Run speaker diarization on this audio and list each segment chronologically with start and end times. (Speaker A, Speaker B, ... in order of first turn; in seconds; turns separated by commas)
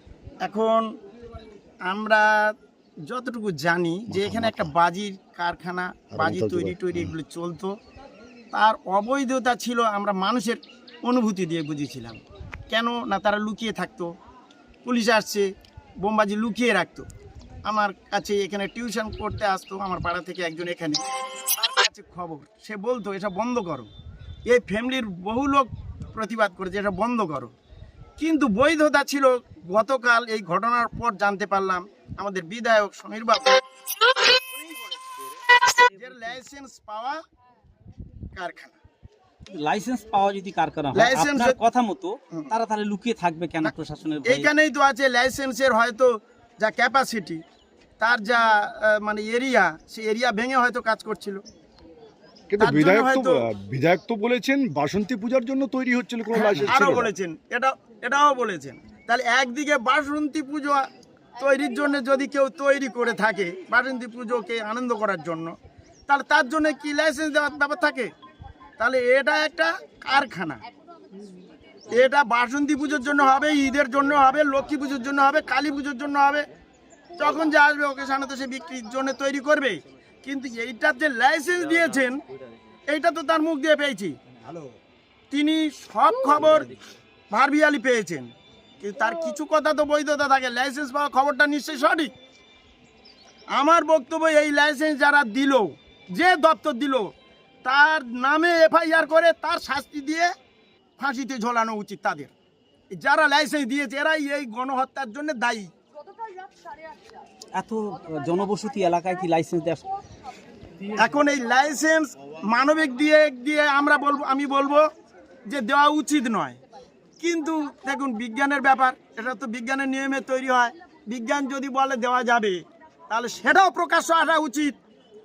Speaker A: 0.4-0.9, Speaker A: 1.9-2.5, Speaker A: 3.1-7.7, Speaker B: 4.1-4.7, Speaker B: 6.1-7.1, Speaker A: 8.5-14.1, Speaker A: 14.8-15.5, Speaker A: 16.0-17.1, Speaker A: 17.6-21.0, Speaker A: 21.5-23.9, Speaker A: 24.5-27.5, Speaker A: 28.2-33.6, Speaker A: 34.3-35.2, Speaker A: 36.0-37.2, Speaker A: 38.4-38.8, Speaker C: 39.5-44.5, Speaker A: 41.0-41.6, Speaker A: 43.6-47.4, Speaker A: 48.0-51.4, Speaker B: 52.5-57.1, Speaker A: 52.6-53.5, Speaker A: 56.3-60.9, Speaker A: 61.4-65.5, Speaker A: 66.1-68.1, Speaker A: 68.8-70.6, Speaker A: 71.9-76.5, Speaker A: 77.2-82.2, Speaker A: 82.9-84.2, Speaker A: 85.3-86.7, Speaker A: 87.3-88.3, Speaker A: 88.8-92.1, Speaker A: 93.5-97.1, Speaker A: 97.7-100.3, Speaker A: 101.0-102.3, Speaker A: 102.9-105.7, Speaker C: 107.6-109.8, Speaker A: 111.0-114.9, Speaker A: 115.5-116.6, Speaker A: 117.2-124.8